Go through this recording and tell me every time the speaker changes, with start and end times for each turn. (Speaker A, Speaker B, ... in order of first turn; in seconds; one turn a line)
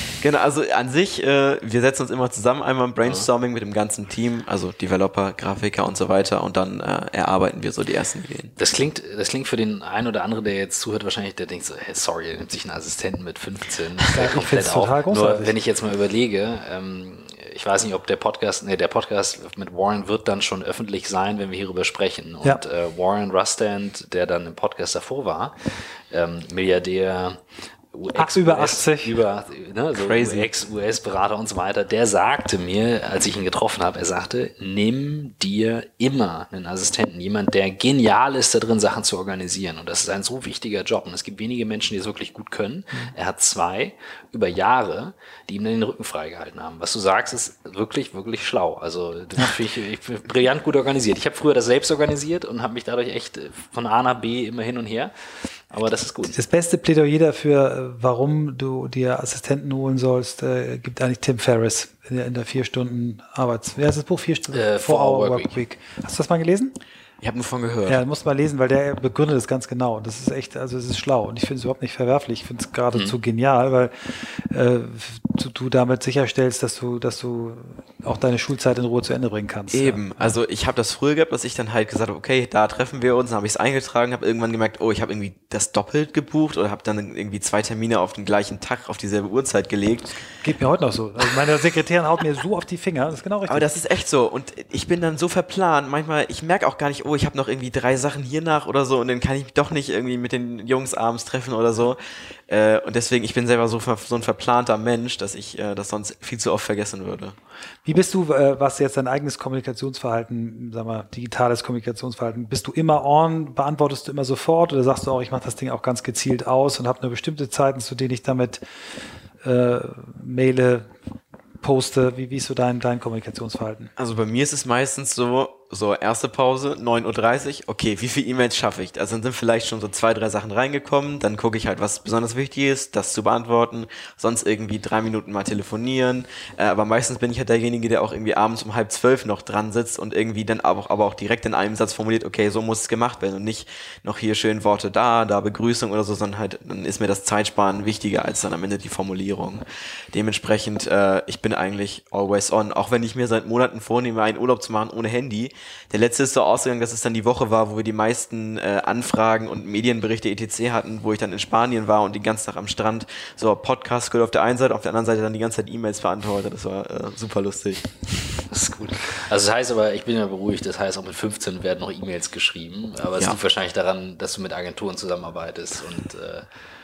Speaker A: 0.2-8.5
Speaker B: 8.6-25.5
Speaker C: 14.1-15.5
Speaker B: 26.1-27.4
Speaker B: 27.9-55.1
Speaker C: 28.1-29.1
Speaker A: 29.9-30.5
Speaker B: 55.7-56.4
Speaker C: 56.3-66.7
Speaker B: 64.5-65.6
Speaker A: 67.2-68.0
Speaker C: 67.9-80.3
Speaker A: 79.7-90.2
Speaker C: 90.4-93.8
Speaker A: 93.5-107.4
Speaker C: 107.8-118.6
Speaker C: 119.4-120.9
Speaker C: 121.6-123.9
Speaker A: 124.0-167.9
Speaker B: 168.5-176.4